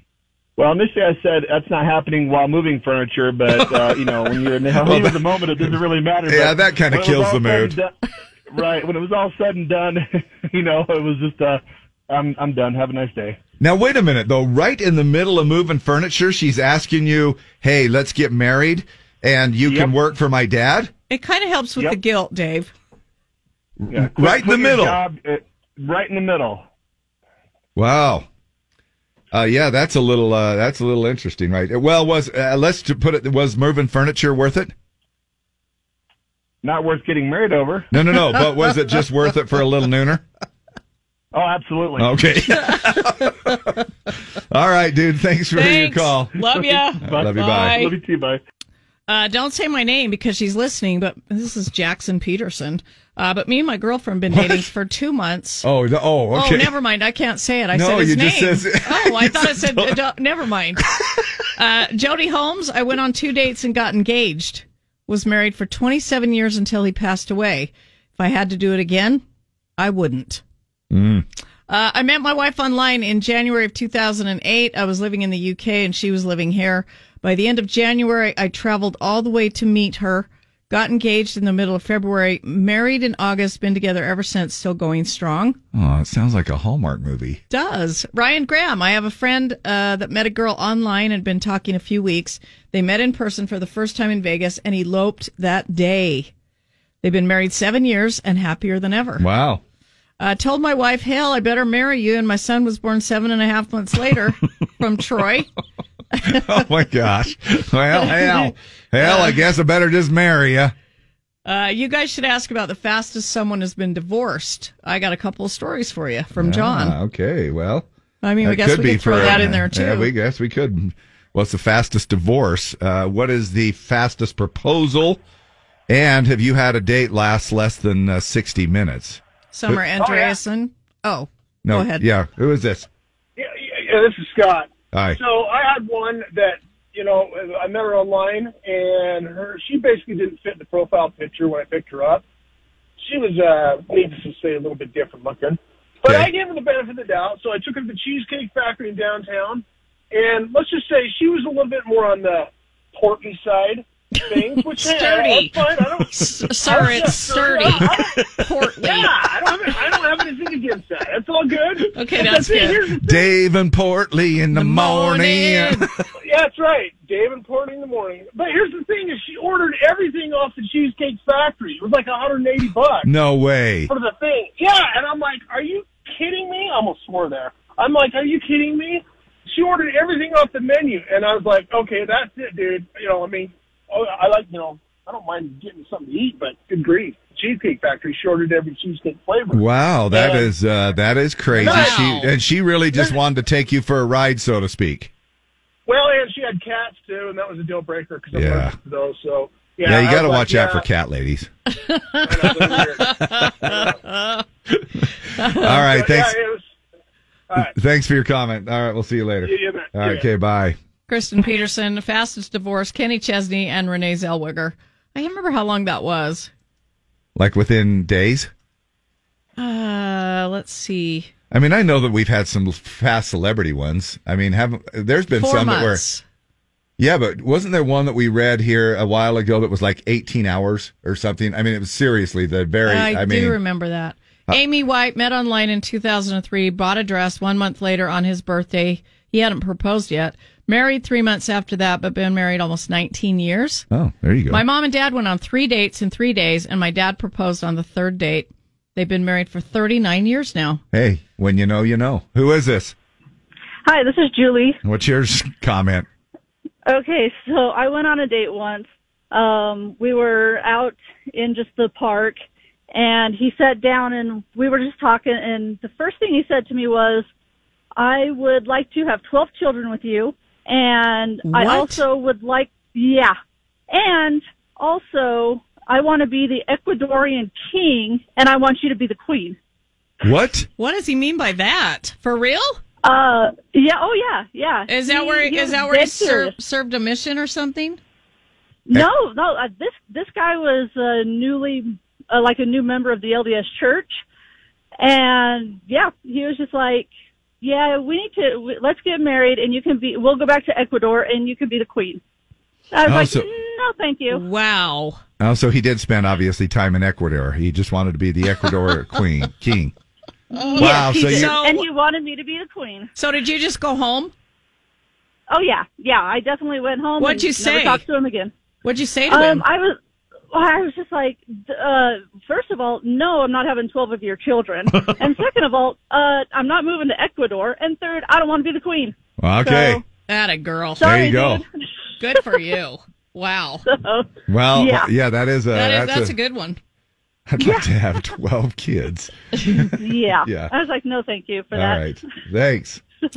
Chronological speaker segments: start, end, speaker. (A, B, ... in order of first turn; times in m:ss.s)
0:00.6-0:07.9 A
0:04.8-0:05.7 B
0:06.3-0:07.7 B
0:08.5-0:13.4 A
0:13.6-0:20.9 B
0:19.6-0:19.9 A
0:21.1-0:22.7 C
0:23.8-0:25.0 B
0:23.9-0:26.6 A
0:27.8-0:28.3 B
0:29.3-0:34.7 B
0:36.6-0:37.9 A
0:37.9-0:40.2 B
0:41.3-0:42.1 A
0:42.0-0:43.6 B
0:44.5-0:46.3 B
0:45.6-0:48.0 C
0:47.0-0:47.8 B
0:47.0-0:48.4 A
0:49.1-0:55.6 C
0:54.3-0:54.6 B
0:55.6-0:56.7 B
0:56.3-1:00.9 C
0:57.7-1:00.0 B
1:01.6-1:09.2 C
1:09.8-1:10.4 C
1:10.9-1:11.2 B
1:11.7-1:25.6 C
1:25.7-1:27.4 B
1:27.5-1:36.3 C
1:37.0-1:39.3 C
1:39.2-1:39.6 B
1:40.2-1:45.5 C
1:46.2-1:50.7 B
1:48.0-1:48.4 C
1:49.0-1:49.4 C
1:51.4-1:57.0 C
1:56.4-1:57.9 B
1:58.2-2:00.1 C
1:58.4-2:05.2 B
2:05.9-2:09.8 B
2:09.5-2:12.0 C
2:10.0-2:10.4 D
2:11.6-2:12.9 B
2:13.4-2:22.2 D
2:14.9-2:15.2 B
2:23.0-2:38.2 D
2:34.6-2:39.2 C
2:38.8-2:43.4 D
2:41.9-2:42.8 C
2:42.9-2:45.9 B
2:44.5-2:45.8 C
2:46.2-2:53.1 D
2:53.0-2:53.9 B
2:53.9-3:10.5 D
3:09.5-3:15.1 B
3:11.5-3:12.3 C
3:11.6-3:12.1 D
3:15.8-3:20.8 D
3:18.3-3:18.8 B
3:19.8-3:21.5 B
3:21.8-3:22.3 C
3:22.2-3:24.0 D
3:23.0-3:24.4 C
3:25.4-3:25.9 C
3:25.5-3:26.4 B
3:25.8-3:26.6 D
3:27.6-3:30.8 B
3:29.4-3:30.3 D
3:31.1-3:36.5 C
3:37.4-3:38.5 B
3:39.6-3:41.3 C
3:41.5-3:46.0 B
3:45.4-3:46.2 C
3:47.0-3:53.6 B
3:52.8-4:03.8 C
4:03.9-4:04.6 B
4:04.5-4:10.8 C
4:10.9-4:12.9 B
4:13.8-4:14.8 E
4:14.8-4:16.1 B
4:16.9-4:22.4 E
4:22.9-4:27.3 E
4:28.0-4:33.4 E
4:31.4-4:32.0 C
4:33.9-4:39.6 E
4:40.2-4:40.7 B
4:40.8-4:42.8 C
4:43.0-4:46.5 E
4:44.9-4:48.0 C
4:48.9-4:54.2 E
4:55.0-4:57.1 E
4:57.6-5:02.2 E
5:02.9-5:04.4 E
5:03.1-5:03.4 B
5:04.3-5:05.2 C
5:05.4-5:09.9 B
5:10.6-5:11.8 C
5:10.8-5:13.1 E
5:10.8-5:11.6 B
5:13.2-5:14.3 C
5:15.5-5:18.5 E
5:17.2-5:18.0 C
5:18.8-5:19.6 C
5:19.3-5:20.0 E
5:20.5-5:30.0 E
5:29.4-5:30.0 B
5:30.3-5:31.3 C
5:31.0-5:31.6 B
5:31.0-5:31.6 E
5:32.2-5:33.8 C
5:33.8-5:35.1 E
5:34.5-5:36.4 B
5:35.7-5:36.8 C
5:37.5-5:40.7 B
5:40.0-5:42.1 E
5:41.7-5:43.0 B